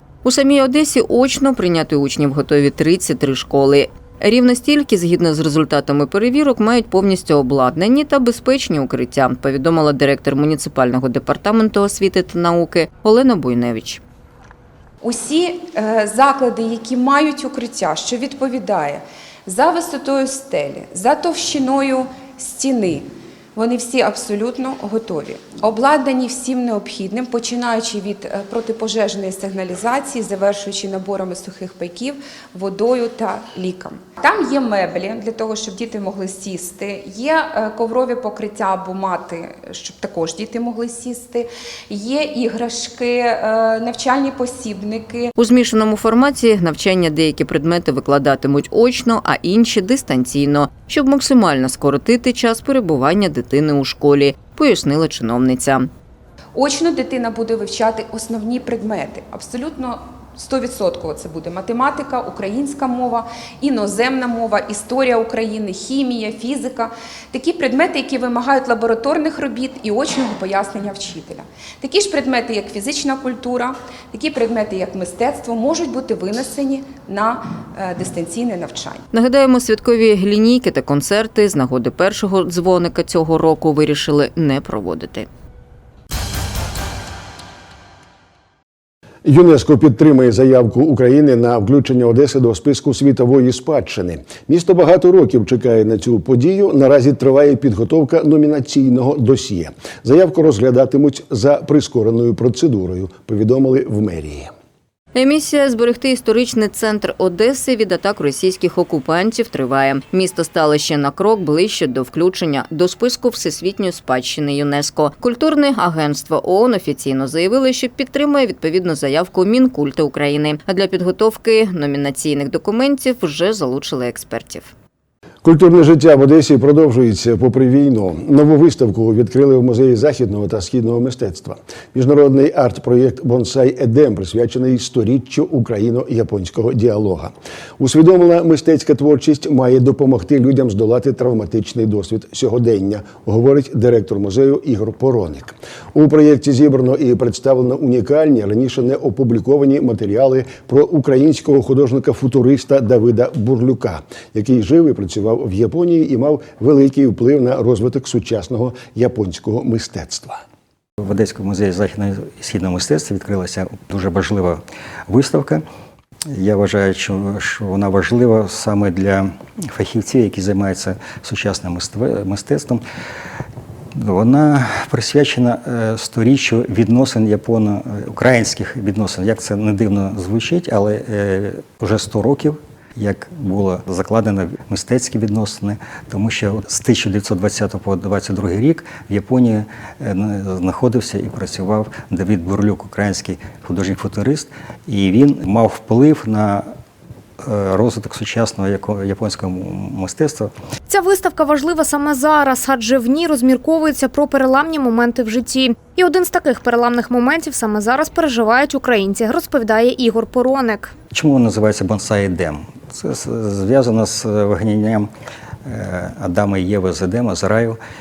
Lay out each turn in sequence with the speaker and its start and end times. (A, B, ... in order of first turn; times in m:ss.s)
0:00.2-0:14.0 A
0:15.0-0:45.3 B
0:45.4-0:55.9 A
0:56.6-1:19.0 B
1:19.1-1:25.3 A
1:29.2-1:44.5 C
1:45.2-2:04.7 A
2:05.4-2:40.4 C
2:41.0-2:45.6 D
2:46.3-2:52.8 D
2:54.0-3:16.7 D
3:17.4-3:20.5 D
3:20.9-3:31.0 E
3:31.1-3:35.1 D
3:35.6-3:37.8 D